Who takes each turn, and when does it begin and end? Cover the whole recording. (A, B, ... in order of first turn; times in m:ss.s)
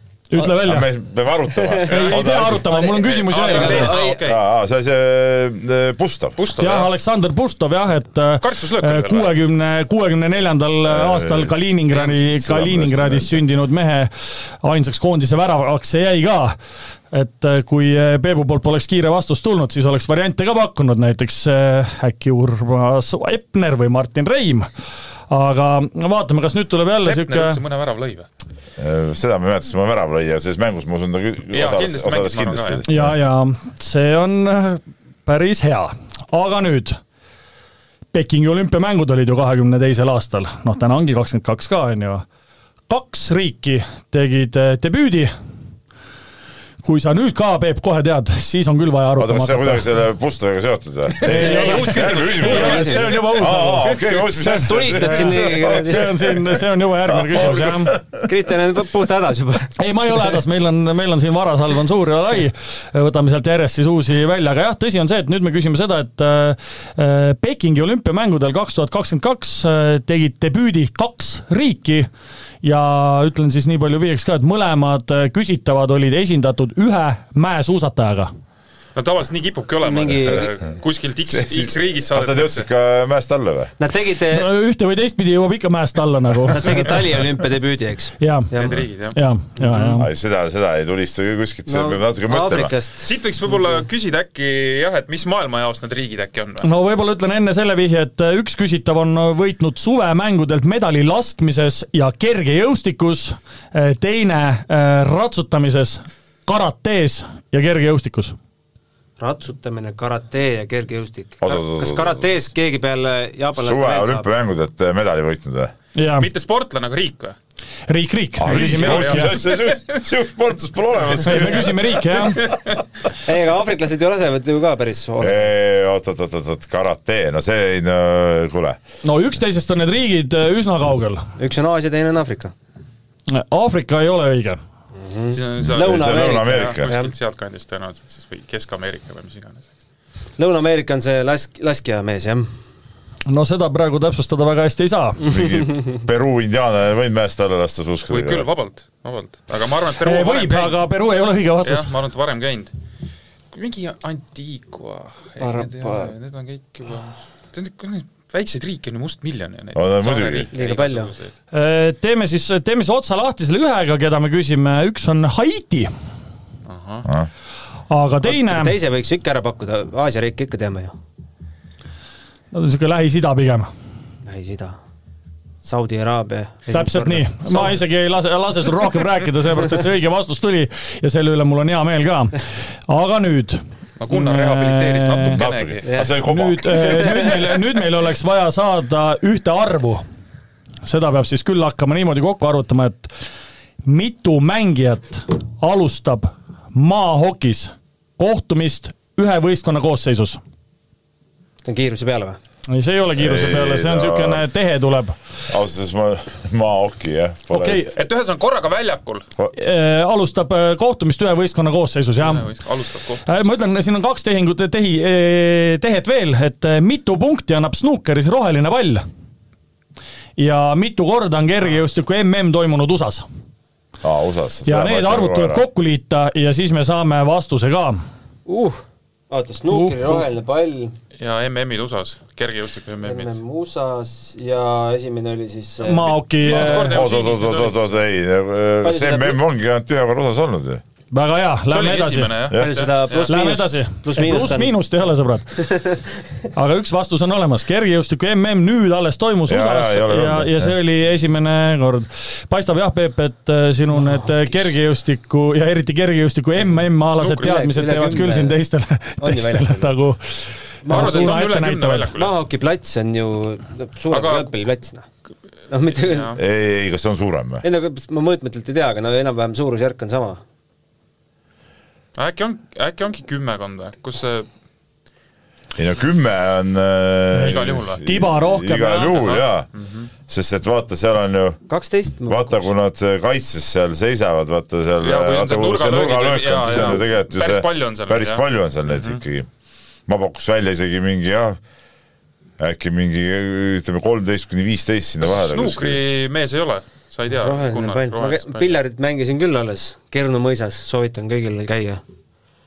0:00.3-0:00.9 A
0:00.4-0:02.7 B
0:01.9-0:04.0 A
0:02.7-0:04.2 C
0:03.1-0:04.4 D
0:03.6-0:06.4 B
0:06.4-0:06.9 D
0:06.6-0:14.1 A
0:08.4-0:09.3 D
0:10.9-0:11.5 B
0:12.4-0:13.4 B
0:14.6-0:16.6 A
0:17.1-0:24.7 A
0:25.3-0:27.6 A
0:27.0-0:28.3 D
0:28.8-0:33.1 B
0:31.5-0:32.8 D
0:32.9-0:37.0 A
0:38.1-0:42.2 A
0:42.9-0:45.3 A
0:46.8-0:49.8 A
0:49.2-0:56.1 B
0:51.2-0:53.4 D
0:51.2-0:57.9 A
0:52.4-0:53.1 C
0:54.3-0:56.2 C
0:57.1-0:58.2 B
0:58.2-0:59.7 C
0:59.8-1:12.1 A
1:12.6-1:18.3 A
1:19.0-1:22.7 D
1:19.8-1:20.5 C
1:21.3-1:23.7 B
1:23.8-1:24.5 C
1:24.3-1:26.9 A
1:26.5-1:28.8 C
1:28.2-1:28.5 A
1:28.6-1:29.2 D
1:29.1-1:30.1 A
1:29.6-1:29.9 C
1:30.0-1:32.7 B
1:31.7-1:33.1 C
1:33.0-1:36.7 D
1:36.6-1:48.4 A
1:49.2-1:54.3 C
1:51.4-1:52.2 B
1:53.6-1:55.7 B
1:56.0-1:56.3 A
1:56.2-1:57.4 D
1:57.9-1:59.3 A
1:58.4-2:02.6 B
1:58.4-2:00.0 D
2:01.2-2:02.4 A
2:03.2-2:05.5 C
2:05.2-2:08.8 B
2:09.0-2:11.3 A
2:11.4-2:12.5 C
2:13.3-2:14.6 A
2:15.0-2:17.1 C
2:15.3-2:19.6 D
2:15.6-2:16.9 B
2:20.4-2:22.5 C
2:23.3-2:25.3 A
2:25.2-2:28.5 B
2:28.1-2:30.8 D
2:30.0-2:31.9 A
2:31.6-2:32.7 D
2:33.5-2:41.3 D
2:35.4-2:36.1 C
2:39.7-2:40.5 B
2:40.5-2:41.1 C
2:41.5-2:45.9 A
2:46.7-2:47.1 D
2:47.9-2:48.8 A
2:48.2-2:50.9 C
2:52.5-2:53.7 A
2:54.3-2:54.8 C
2:55.6-2:57.8 C
2:56.7-3:05.4 A
3:04.0-3:05.9 D
3:05.3-3:07.1 B
3:05.8-3:06.2 C
3:06.2-3:10.0 A
3:10.8-3:13.1 A
3:13.8-3:20.4 A
3:21.6-3:22.4 C
3:22.7-3:25.2 A
3:23.2-3:24.4 B
3:25.5-3:28.0 B
3:27.5-3:27.9 A
3:28.0-3:29.3 D
3:29.5-3:32.5 A
3:32.2-3:33.3 D
3:33.2-3:39.0 A
3:40.4-3:43.3 A
3:44.0-3:45.6 B
3:44.7-3:48.0 A
3:48.5-3:51.0 C
3:49.7-3:50.2 A
3:51.2-3:53.4 D
3:53.0-3:56.2 C
3:55.8-3:57.0 A
3:56.4-3:57.9 D
3:56.5-4:00.8 B
3:58.8-3:59.4 C
4:01.1-4:02.3 A
4:01.7-4:03.4 D
4:02.5-4:02.8 B
4:02.5-4:04.7 C
4:03.3-4:05.7 A
4:06.6-4:22.1 A
4:09.5-4:10.7 B
4:14.0-4:14.3 C
4:17.2-4:17.7 D
4:17.4-4:18.6 C
4:19.2-4:19.9 C
4:20.8-4:21.4 C
4:20.9-4:22.3 D
4:22.2-4:25.1 C
4:24.1-4:24.5 D
4:25.7-4:26.4 C
4:25.9-4:26.4 D
4:26.4-4:27.6 B
4:27.6-4:30.4 C
4:32.2-4:34.5 D
4:35.8-4:39.7 B
4:37.3-4:39.2 A
4:37.4-4:38.0 D
4:39.1-4:40.1 D
4:40.3-4:41.6 B
4:41.7-4:42.7 C
4:42.3-4:49.5 B
4:45.0-4:49.2 D
4:50.1-4:51.6 B
4:52.6-4:56.0 B
4:55.2-4:58.8 D
4:57.3-5:02.0 C